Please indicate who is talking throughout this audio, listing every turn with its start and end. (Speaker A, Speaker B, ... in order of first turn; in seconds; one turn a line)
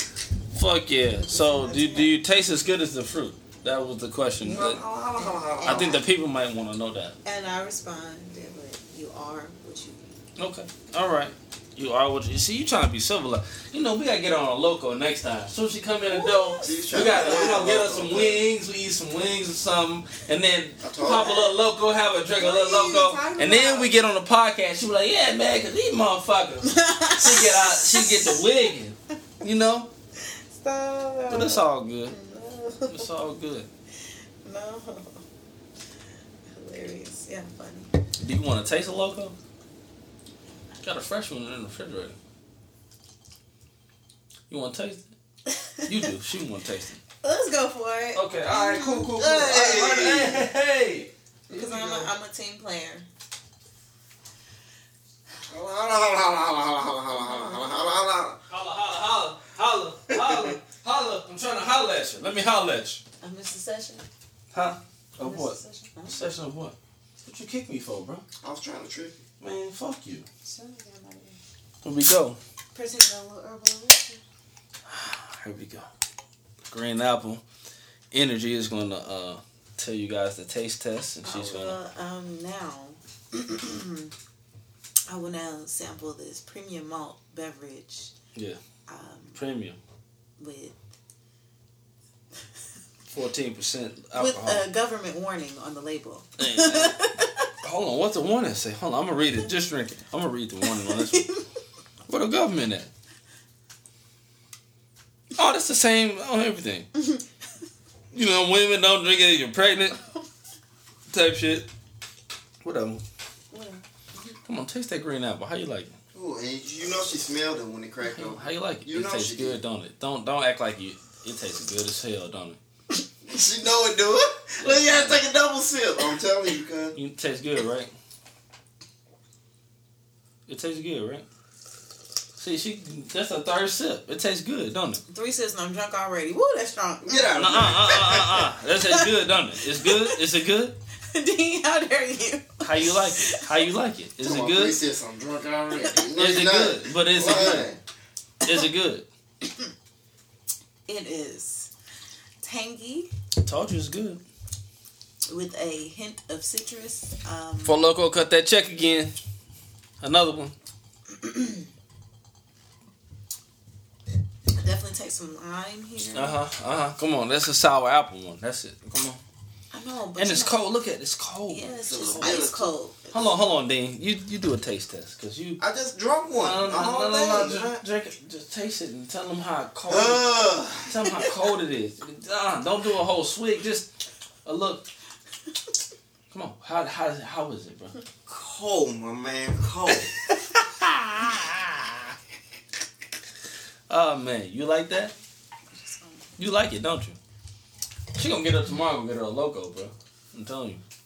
Speaker A: 0.5-4.8
Speaker B: 1.3-2.1
Speaker C: 4.4-6.0
Speaker B: 4.5-6.0
Speaker A: 5.7-7.2
Speaker B: 7.2-10.1
Speaker A: 10.4-29.9
Speaker B: 16.1-18.3
Speaker C: 16.6-18.4
Speaker C: 20.8-21.4
Speaker B: 22.4-23.9
Speaker B: 26.6-28.5
Speaker B: 30.2-33.1
Speaker A: 31.3-32.1
Speaker A: 32.9-33.7
Speaker B: 34.4-35.2
Speaker B: 36.5-37.9
Speaker A: 38.2-39.3
Speaker A: 40.8-42.2
Speaker A: 44.5-45.1
Speaker B: 45.5-46.1
Speaker A: 45.9-47.0
Speaker B: 47.2-49.1
Speaker A: 48.1-52.1
Speaker C: 49.1-50.4
Speaker B: 51.5-53.1
Speaker C: 55.5-58.4
Speaker B: 57.2-57.7
Speaker A: 58.5-63.0
Speaker C: 60.1-60.5
Speaker B: 63.2-64.0
Speaker A: 64.5-68.2
Speaker B: 65.2-66.3
Speaker C: 68.4-69.2
Speaker A: 69.4-70.3
Speaker B: 70.5-71.4
Speaker A: 71.8-72.4
Speaker B: 72.7-74.2
Speaker A: 74.9-75.9
Speaker A: 76.7-77.4
Speaker A: 78.1-81.8
Speaker B: 81.2-84.1
Speaker B: 85.1-88.1
Speaker B: 88.9-89.4
Speaker A: 89.3-89.8
Speaker B: 90.4-90.8
Speaker A: 93.1-94.7
Speaker B: 94.2-97.5
Speaker A: 96.4-97.0
Speaker A: 97.6-101.2
Speaker B: 100.7-101.4
Speaker A: 102.1-102.9
Speaker A: 105.4-106.9
Speaker B: 107.0-107.2
Speaker A: 108.1-110.0
Speaker B: 110.0-110.2
Speaker A: 111.1-111.7
Speaker A: 112.6-113.0
Speaker B: 113.5-114.4
Speaker A: 114.5-116.0
Speaker C: 116.1-119.6
Speaker A: 118.0-122.6
Speaker C: 123.2-127.0
Speaker A: 124.6-125.2
Speaker A: 127.0-127.9
Speaker A: 130.5-131.3
Speaker A: 132.4-135.0
Speaker B: 135.1-138.0
Speaker C: 137.1-138.5
Speaker A: 137.4-140.8
Speaker B: 138.8-140.2
Speaker B: 141.1-143.7
Speaker A: 142.6-144.8
Speaker C: 144.2-147.8
Speaker A: 146.2-147.7
Speaker A: 148.4-149.1
Speaker B: 150.9-151.7
Speaker B: 152.4-153.1
Speaker A: 153.4-154.2
Speaker B: 155.3-157.8
Speaker A: 157.6-159.1
Speaker A: 160.0-160.6
Speaker B: 161.1-161.7
Speaker B: 164.5-166.4
Speaker A: 166.1-169.2
Speaker B: 169.7-170.6
Speaker A: 170.2-172.4
Speaker B: 171.5-173.4
Speaker C: 171.9-172.7
Speaker A: 173.1-175.6
Speaker C: 175.6-177.8
Speaker A: 176.4-180.3
Speaker C: 179.9-181.0
Speaker A: 180.9-183.9
Speaker A: 184.5-184.9
Speaker A: 186.3-188.0
Speaker C: 188.3-190.2
Speaker A: 193.9-195.1
Speaker B: 195.7-196.3
Speaker A: 196.4-197.2
Speaker A: 198.2-200.8